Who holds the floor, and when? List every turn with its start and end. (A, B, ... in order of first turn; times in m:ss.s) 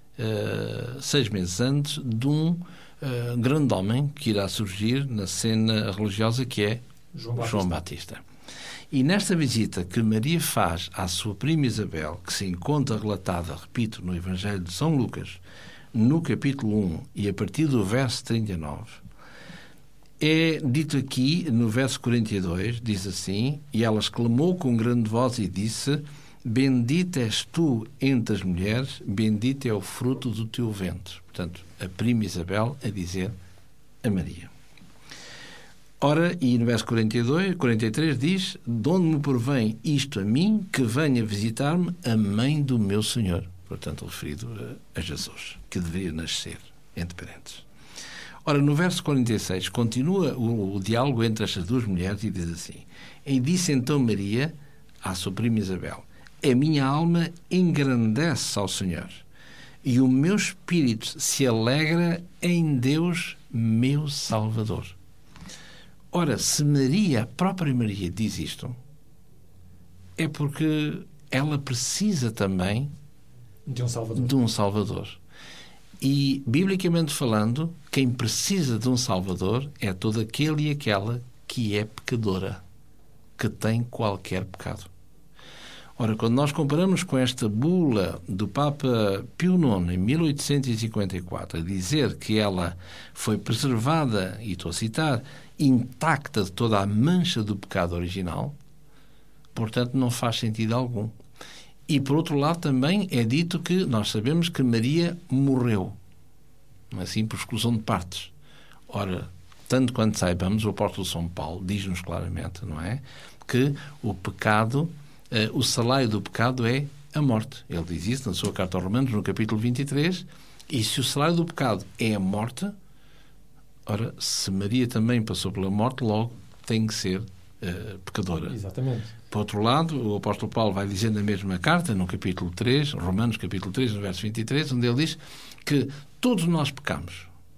0:00.2-0:06.8 A
0:07.1-0:07.8 B
0:07.4-0:08.2 A
0:08.9-0:15.4 A
0:15.9-0:19.0 A
0:20.2-0:33.3 A
0:34.0-0:34.5 A
0:36.0-0:47.6 A
0:48.4-0:59.2 A
0:59.8-1:05.0 A
1:06.1-1:08.8 A
1:10.2-1:12.9 A
1:13.7-1:14.3 B
1:14.1-1:15.2 A
1:16.0-1:22.6 A
1:23.4-1:24.9 A
1:26.0-1:38.6 A
1:39.5-1:41.2 A
1:41.9-1:46.0 A
1:46.9-1:48.3 A
1:48.9-2:02.7 A
2:03.8-2:08.6 A
2:08.5-2:09.1 B
2:09.3-2:17.3 A